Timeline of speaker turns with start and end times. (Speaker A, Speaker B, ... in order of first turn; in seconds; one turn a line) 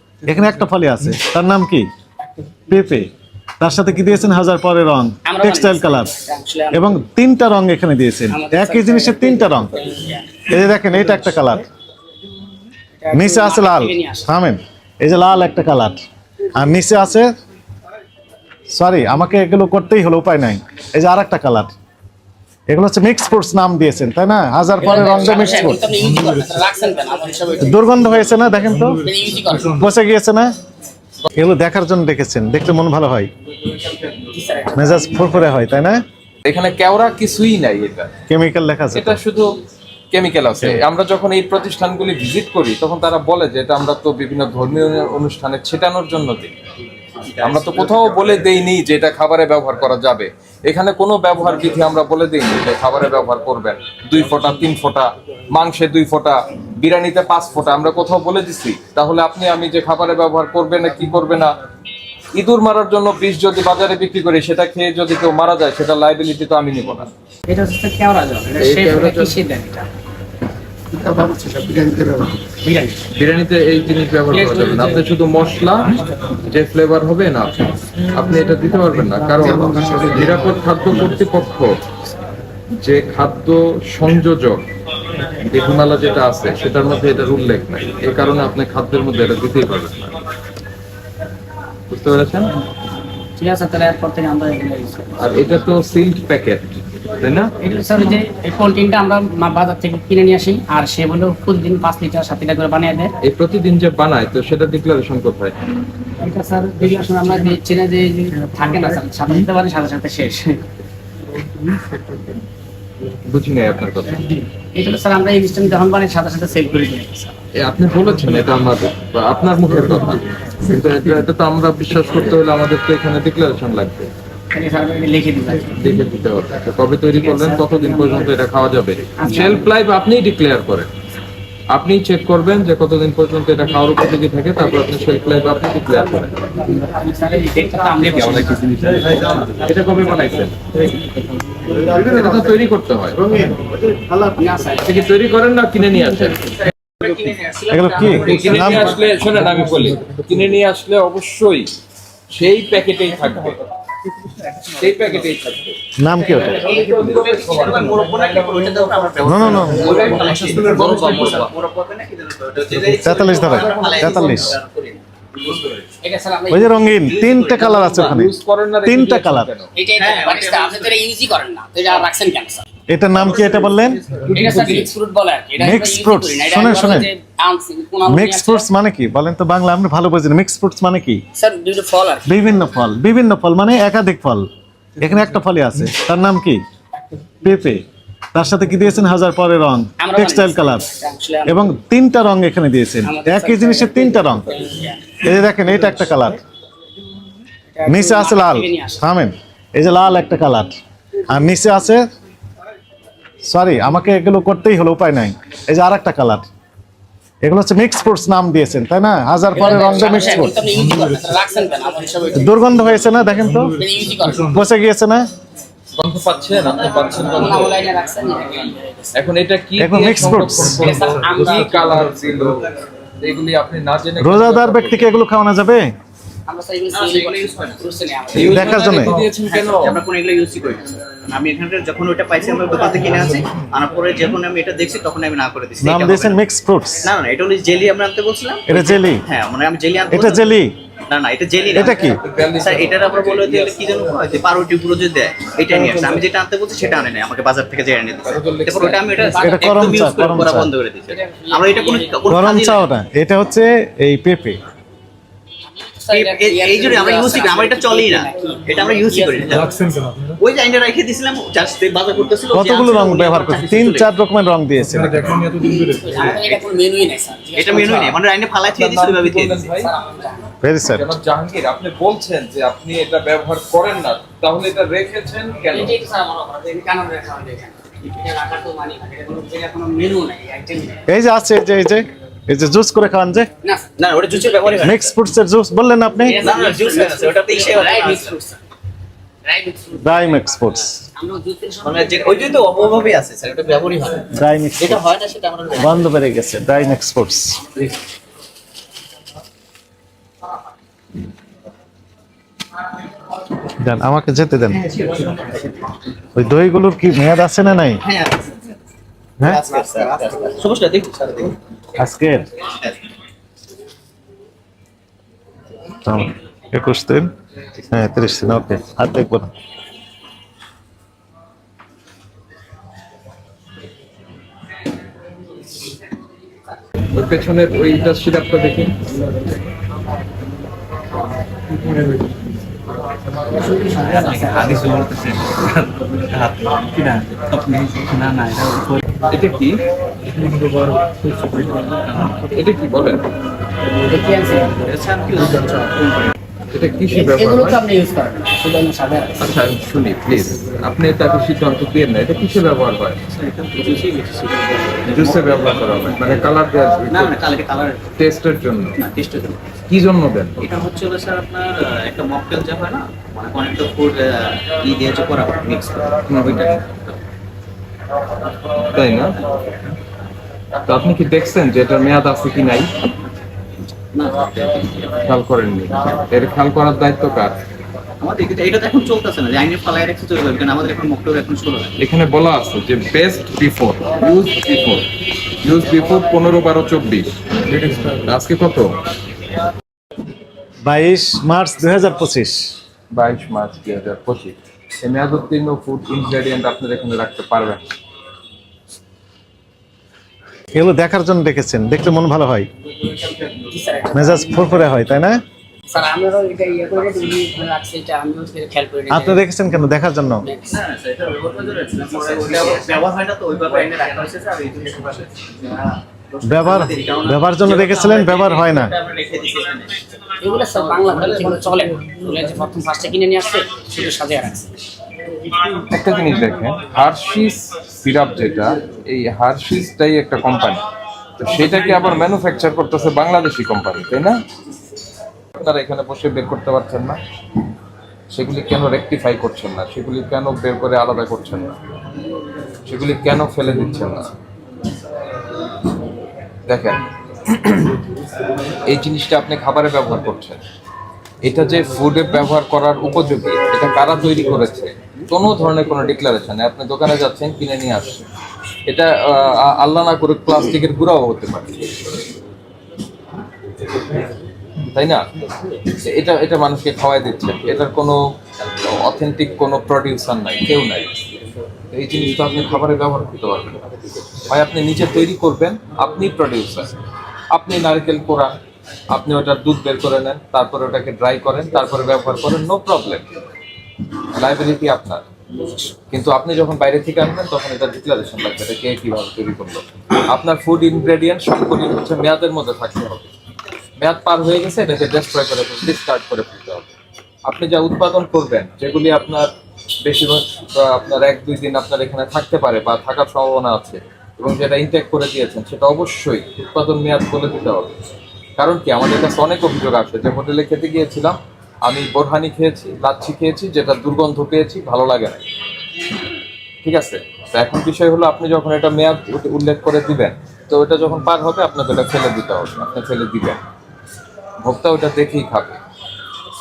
Speaker A: 0.3-1.9
Speaker A: 2.7-6.2
Speaker B: 5.2-7.0
Speaker A: 6.7-9.7
Speaker B: 8.3-10.5
Speaker A: 10.5-11.7
Speaker B: 13.0-14.3
Speaker A: 13.1-16.0
Speaker A: 16.5-17.3
Speaker A: 18.7-21.7
Speaker A: 22.7-25.9
Speaker B: 24.8-27.9
Speaker A: 27.6-29.0
Speaker B: 29.0-29.8
Speaker A: 29.6-30.5
Speaker A: 31.3-33.3
Speaker B: 34.0-35.5
Speaker A: 34.8-36.0
Speaker C: 36.5-38.1
Speaker A: 38.3-39.2
Speaker C: 38.9-39.5
Speaker C: 40.1-46.5
Speaker D: 47.2-48.5
Speaker C: 47.4-61.5
Speaker C: 62.4-67.1
Speaker B: 67.5-69.9
Speaker C: 68.6-69.4
Speaker B: 72.0-73.0
Speaker C: 73.1-81.8
Speaker B: 74.3-75.0
Speaker C: 82.8-84.7
Speaker C: 85.4-90.2
Speaker C: 91.9-92.5
Speaker B: 93.3-95.1
Speaker C: 95.2-97.5
Speaker B: 97.6-103.1
Speaker C: 103.2-105.5
Speaker B: 106.2-110.6
Speaker C: 113.2-114.3
Speaker B: 114.7-117.3
Speaker C: 117.6-124.1
Speaker B: 124.5-125.8
Speaker C: 125.7-130.9
Speaker B: 127.2-128.2
Speaker B: 129.2-129.6
Speaker C: 131.7-136.3
Speaker B: 136.5-138.6
Speaker C: 137.9-141.2
Speaker A: 141.7-142.2
Speaker C: 141.8-143.2
Speaker A: 143.2-144.4
Speaker B: 144.4-144.9
Speaker C: 144.8-146.6
Speaker B: 147.0-148.9
Speaker A: 147.7-149.0
Speaker C: 148.2-151.7
Speaker C: 152.3-153.6
Speaker C: 154.7-158.7
Speaker A: 156.0-156.7
Speaker D: 156.2-165.8
Speaker A: 159.2-159.9
Speaker C: 159.6-161.5
Speaker A: 163.0-164.6
Speaker C: 163.1-164.3
Speaker B: 166.0-167.1
Speaker A: 166.5-169.5
Speaker D: 167.3-167.6
Speaker C: 167.5-169.7
Speaker B: 169.8-172.7
Speaker D: 170.0-170.9
Speaker A: 172.9-174.2
Speaker C: 174.3-174.8
Speaker B: 174.3-178.7
Speaker A: 175.6-177.1
Speaker A: 178.1-181.2
Speaker B: 181.3-182.3
Speaker A: 182.3-184.5
Speaker A: 185.0-186.6
Speaker A: 187.4-190.9
Speaker B: 190.0-191.7
Speaker A: 191.5-194.5
Speaker B: 193.0-195.2
Speaker A: 195.2-196.4
Speaker B: 197.7-199.0
Speaker A: 197.9-200.8
Speaker A: 201.3-202.1
Speaker A: 203.4-206.5
Speaker A: 207.4-210.6
Speaker B: 209.5-212.6
Speaker A: 212.3-213.8
Speaker B: 213.8-214.6
Speaker A: 214.3-215.3
Speaker C: 215.9-217.9
Speaker D: 217.0-217.5
Speaker B: 217.1-219.2
Speaker C: 219.1-222.7
Speaker A: 219.8-220.8
Speaker B: 220.8-221.9
Speaker C: 223.2-225.1
Speaker A: 224.2-225.9
Speaker B: 226.5-229.0
Speaker D: 226.9-227.8
Speaker C: 228.3-230.0
Speaker A: 228.4-229.2
Speaker D: 229.5-236.4
Speaker A: 235.8-237.1
Speaker D: 237.0-240.5
Speaker A: 238.7-239.2
Speaker A: 240.1-240.7
Speaker D: 241.1-252.9
Speaker C: 241.8-243.8
Speaker A: 241.8-242.2
Speaker C: 248.2-249.4
Speaker B: 249.2-250.4
Speaker A: 249.4-250.7
Speaker B: 251.1-252.2
Speaker A: 252.3-254.6
Speaker B: 255.7-259.9
Speaker D: 256.1-259.7
Speaker D: 260.4-264.1
Speaker A: 262.5-265.4
Speaker D: 265.3-266.7
Speaker B: 265.6-268.2
Speaker D: 267.6-269.7
Speaker C: 268.7-269.9
Speaker B: 269.8-270.5
Speaker A: 270.6-271.1
Speaker C: 270.9-276.0
Speaker B: 275.7-281.1
Speaker A: 281.1-283.5
Speaker B: 283.6-283.9
Speaker D: 284.0-285.2
Speaker A: 284.8-286.4
Speaker B: 286.2-288.6
Speaker D: 286.4-288.4
Speaker B: 289.4-292.6
Speaker A: 290.0-291.1
Speaker D: 291.8-296.1
Speaker A: 294.3-295.0
Speaker A: 295.8-297.7
Speaker A: 303.7-304.8
Speaker D: 304.8-305.6
Speaker A: 306.4-308.0
Speaker D: 308.0-308.6
Speaker D: 309.4-311.6
Speaker A: 312.0-312.5
Speaker D: 312.8-313.0
Speaker A: 316.0-319.5
Speaker C: 327.1-329.0
Speaker B: 333.5-334.9
Speaker D: 334.1-339.0
Speaker C: 339.3-339.8
Speaker D: 341.6-342.4
Speaker C: 342.4-343.2
Speaker B: 344.0-344.8
Speaker D: 344.8-346.3
Speaker C: 346.7-347.8
Speaker B: 347.1-349.5
Speaker C: 349.4-353.2
Speaker D: 353.3-356.5
Speaker C: 355.1-357.4
Speaker D: 357.1-358.1
Speaker C: 358.2-359.0
Speaker D: 358.9-359.8
Speaker C: 359.9-360.7
Speaker D: 360.6-367.1
Speaker C: 366.3-366.9
Speaker C: 368.8-369.4
Speaker C: 370.9-372.9
Speaker D: 374.1-375.1
Speaker C: 375.2-377.6
Speaker D: 378.2-381.9
Speaker C: 382.0-385.1
Speaker C: 385.6-389.0
Speaker A: 390.9-392.7
Speaker C: 393.1-397.8
Speaker A: 400.7-402.7
Speaker D: 403.1-403.6
Speaker B: 403.7-404.9
Speaker A: 404.1-405.4
Speaker B: 405.9-409.4
Speaker A: 409.1-410.5
Speaker B: 410.4-410.8
Speaker D: 410.7-420.1
Speaker A: 416.4-418.9
Speaker B: 420.4-424.7
Speaker D: 420.9-421.8
Speaker C: 425.6-430.8
Speaker C: 431.4-434.4
Speaker C: 435.6-437.2
Speaker C: 438.3-441.8
Speaker C: 442.9-444.3
Speaker C: 446.7-448.0
Speaker C: 448.9-450.6
Speaker C: 451.4-458.2
Speaker C: 458.9-462.1
Speaker C: 464.9-465.3
Speaker C: 465.9-468.2
Speaker C: 468.9-471.1
Speaker C: 471.9-473.9
Speaker C: 474.4-476.9
Speaker C: 477.5-478.5
Speaker C: 479.1-483.3
Speaker C: 484.3-485.2
Speaker C: 486.1-493.3
Speaker C: 494.0-496.9
Speaker C: 497.4-499.5
Speaker C: 500.0-507.9
Speaker C: 508.6-515.4
Speaker C: 516.8-523.6
Speaker C: 524.6-525.8